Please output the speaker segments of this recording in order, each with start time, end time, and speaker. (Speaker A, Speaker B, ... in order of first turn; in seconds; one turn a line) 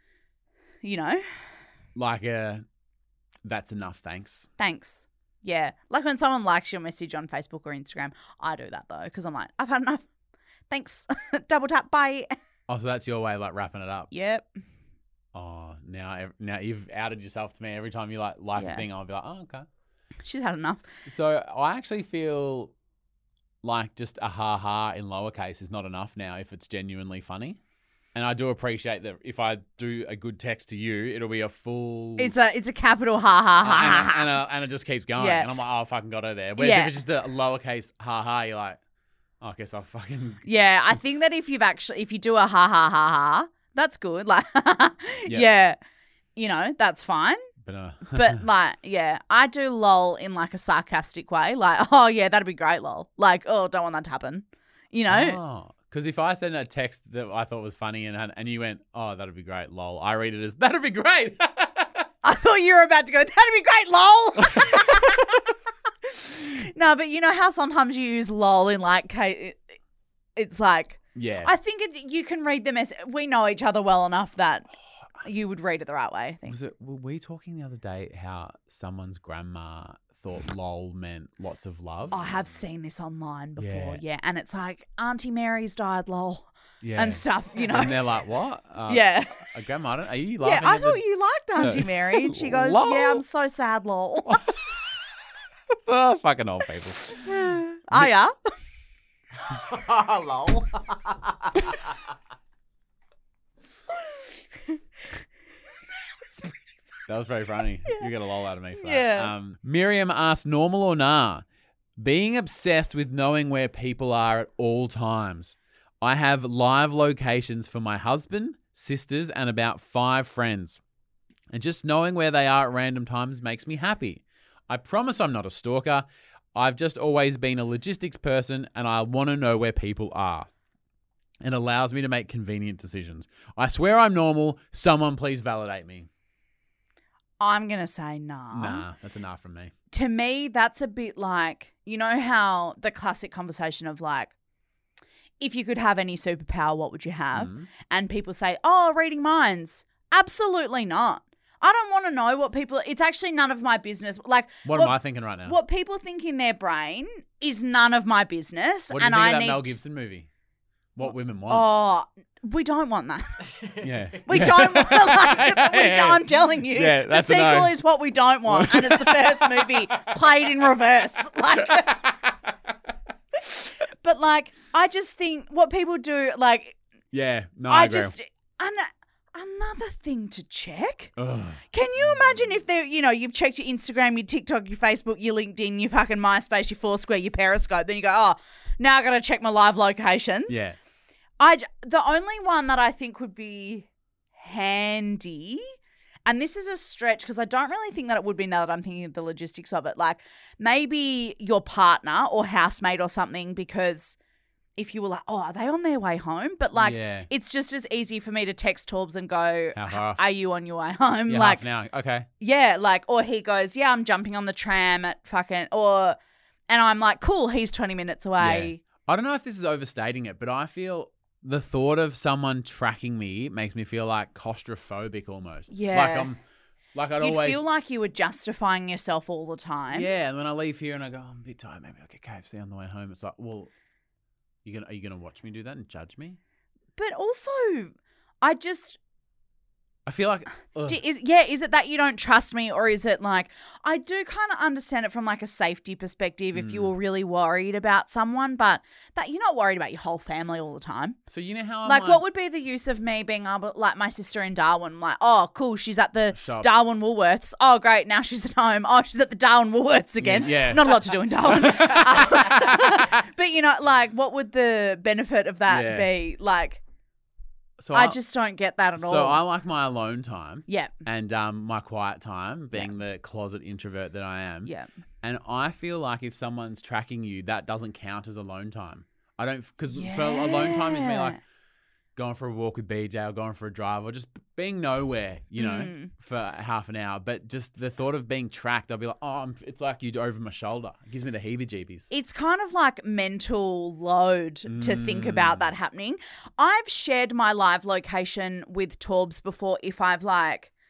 Speaker A: 0.8-1.3
Speaker B: 1.9-2.6
Speaker B: 3.5-4.5
Speaker A: 4.6-10.0
Speaker A: 10.7-12.3
Speaker B: 12.7-14.1
Speaker A: 14.1-14.5
Speaker B: 15.3-19.7
Speaker A: 18.6-18.9
Speaker A: 20.2-20.8
Speaker B: 21.1-22.7
Speaker B: 23.6-27.6
Speaker B: 28.1-32.3
Speaker A: 32.2-34.3
Speaker B: 33.6-38.8
Speaker A: 35.2-35.5
Speaker A: 36.6-36.9
Speaker B: 39.4-40.4
Speaker A: 40.5-45.8
Speaker A: 46.4-47.5
Speaker B: 47.6-48.4
Speaker A: 48.1-55.4
Speaker B: 55.1-62.1
Speaker A: 62.2-65.4
Speaker B: 64.7-65.3
Speaker A: 66.1-69.6
Speaker A: 70.4-74.7
Speaker B: 71.2-71.5
Speaker A: 75.2-76.5
Speaker B: 76.5-82.3
Speaker A: 82.1-88.0
Speaker B: 83.6-84.0
Speaker B: 86.8-91.0
Speaker A: 88.9-89.5
Speaker A: 90.4-94.5
Speaker B: 91.6-93.2
Speaker B: 94.3-94.6
Speaker B: 95.9-98.1
Speaker A: 97.2-98.3
Speaker C: 99.5-101.9
Speaker A: 106.2-106.5
Speaker B: 107.1-111.4
Speaker A: 108.8-109.3
Speaker B: 112.0-120.8
Speaker B: 121.5-130.5
Speaker B: 131.4-136.1
Speaker A: 137.4-138.8
Speaker B: 138.5-139.7
Speaker A: 139.9-144.3
Speaker A: 145.4-159.7
Speaker B: 147.3-147.7
Speaker B: 154.7-155.6
Speaker B: 158.9-160.3
Speaker B: 161.0-161.7
Speaker A: 161.5-163.5
Speaker B: 163.8-167.8
Speaker A: 164.3-172.0
Speaker B: 168.5-170.1
Speaker B: 171.6-172.3
Speaker A: 173.4-176.8
Speaker B: 177.1-178.1
Speaker A: 177.7-181.2
Speaker B: 181.2-182.5
Speaker A: 181.7-190.6
Speaker B: 190.5-190.8
Speaker A: 191.4-193.9
Speaker A: 194.4-195.7
Speaker A: 196.3-204.2
Speaker A: 204.8-211.6
Speaker B: 206.8-207.3
Speaker B: 209.8-210.2
Speaker B: 211.3-212.3
Speaker A: 212.4-216.2
Speaker A: 216.7-218.8
Speaker B: 218.4-226.4
Speaker A: 225.7-226.3
Speaker B: 226.9-227.6
Speaker A: 227.2-230.1
Speaker B: 229.9-233.7
Speaker B: 234.7-236.4
Speaker A: 237.0-239.0
Speaker B: 240.1-241.0
Speaker A: 240.9-251.2
Speaker B: 246.5-246.9
Speaker B: 251.3-252.2
Speaker A: 251.8-266.8
Speaker B: 256.3-256.7
Speaker B: 260.2-263.2
Speaker B: 265.7-266.1
Speaker B: 267.8-268.2
Speaker A: 267.9-269.4
Speaker B: 269.0-274.7
Speaker A: 270.7-270.9
Speaker B: 275.2-281.4
Speaker A: 279.9-281.4
Speaker B: 282.2-292.1
Speaker A: 285.6-286.1
Speaker A: 292.1-300.7
Speaker B: 294.7-295.7